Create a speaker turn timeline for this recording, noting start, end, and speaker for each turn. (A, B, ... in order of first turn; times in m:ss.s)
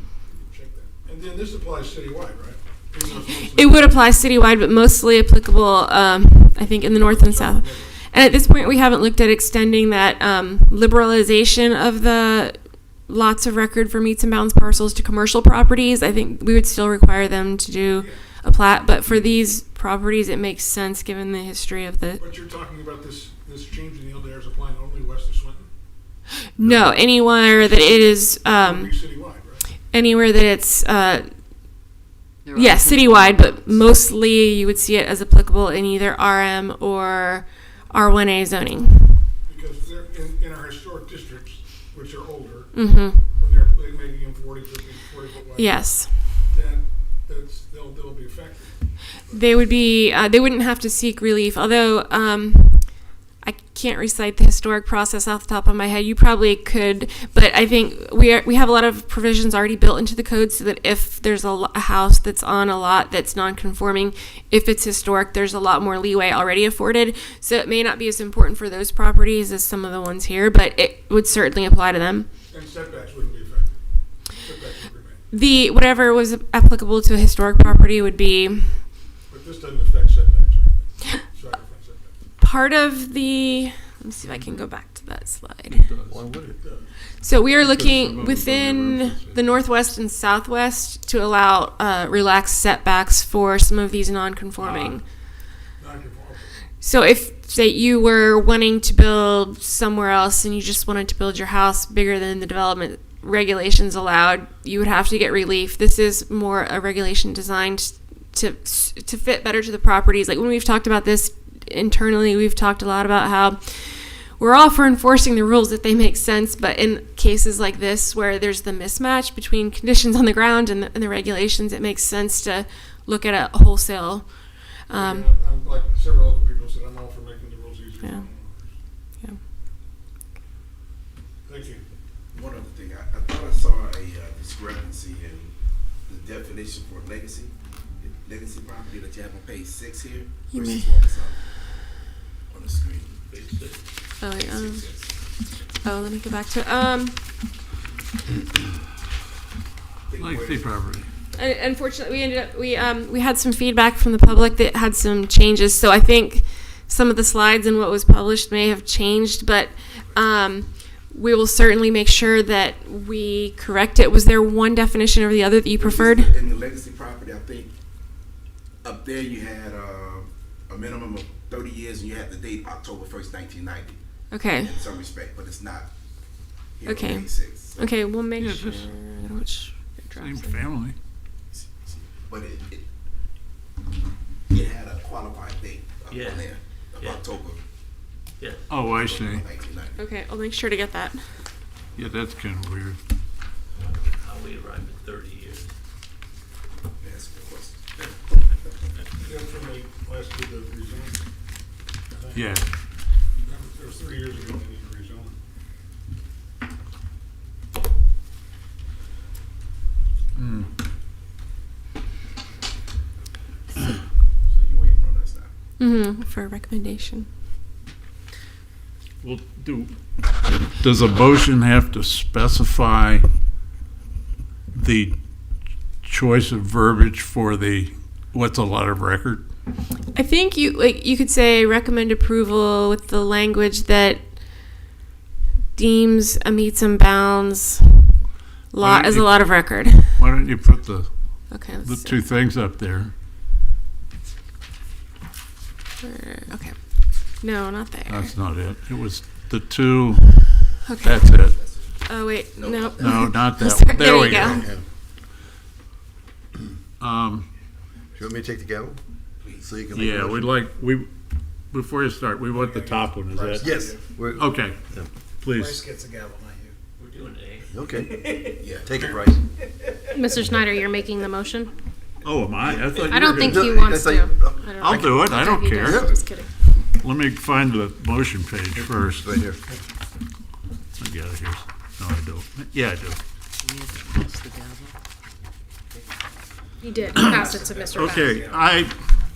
0:00.3-0:04.0 A
0:03.4-0:22.2 B
0:06.6-0:08.2 A
0:17.9-0:18.2 A
0:22.2-0:25.7 A
0:26.6-0:29.0 B
0:27.2-0:29.7 A
0:29.9-0:31.3 B
0:32.4-0:33.9 C
0:32.5-0:39.3 B
0:39.4-0:49.6 A
0:42.7-0:43.2 B
0:45.6-0:46.2 B
0:49.3-1:12.3 B
1:12.5-1:15.3 A
1:15.3-1:18.8 B
1:19.3-1:22.1 A
1:22.4-1:25.8 B
1:24.2-1:24.7 D
1:25.7-1:26.3 D
1:26.1-1:26.6 E
1:26.6-1:27.2 A
1:27.2-1:35.0 B
1:27.6-1:29.6 D
1:34.6-1:35.0 A
1:35.8-1:36.6 A
1:36.8-2:05.3 B
2:04.9-2:08.8 A
2:11.4-2:11.8 A
2:12.3-2:21.4 F
2:20.5-2:21.0 B
2:22.5-2:23.2 F
2:23.3-2:23.8 G
2:24.2-2:24.9 B
2:24.4-2:25.6 F
2:25.8-2:27.2 B
2:30.1-2:30.7 F
2:30.2-2:31.1 D
2:31.4-2:46.3 B
2:45.8-2:47.7 F
2:48.8-2:54.0 F
2:54.3-2:54.7 B
2:54.6-2:55.9 F
2:56.8-2:57.9 F
2:56.8-3:00.6 B
2:58.4-2:58.9 D
3:00.2-3:01.0 D
3:01.5-3:02.8 F
3:04.5-3:07.6 F
3:06.1-3:07.2 G
3:08.4-3:08.7 G
3:08.7-3:09.4 D
3:08.9-3:10.0 F
3:10.0-3:11.3 B
3:11.9-3:13.0 D
3:13.8-3:15.7 G
3:17.0-3:17.8 F
3:19.2-3:21.3 A
3:22.1-3:22.6 A
3:22.3-3:22.7 D
3:23.4-3:25.4 A
3:30.4-3:30.7 D
3:33.8-3:35.5 F
3:35.8-3:37.3 B
3:39.2-3:39.9 D
3:40.5-3:43.2 D
3:44.7-3:45.2 D
3:46.0-3:49.4 D
3:50.1-3:54.6 B
3:55.8-3:58.1 B
3:58.7-4:00.2 B
3:58.8-3:59.5 D
4:00.1-4:03.1 D
4:01.5-4:02.2 B
4:06.0-4:08.3 B
4:08.1-4:11.6 D
4:10.8-4:11.4 B
4:11.6-4:11.9 F
4:12.1-4:14.6 B
4:12.6-4:13.0 F
4:13.0-4:14.7 D
4:14.3-4:14.8 E
4:17.0-4:17.4 D
4:18.2-4:19.0 E
4:19.4-4:19.9 F
4:19.6-4:20.5 E
4:19.9-4:21.1 D
4:21.7-4:24.8 D
4:23.6-4:25.1 E
4:25.4-4:25.8 D
4:25.6-4:26.7 C
4:27.0-4:27.7 G
4:27.7-4:29.4 E
4:28.5-4:29.1 F
4:30.1-4:31.7 H
4:32.2-4:33.7 D
4:32.7-4:33.8 G
4:33.1-4:36.5 H
4:33.3-4:35.2 E
4:34.8-4:36.1 D
4:35.8-4:36.2 E
4:37.0-4:39.3 D
4:38.8-4:39.6 E
4:41.0-4:43.2 D
4:43.6-4:44.9 C
4:46.8-4:48.4 H
4:47.1-4:49.0 D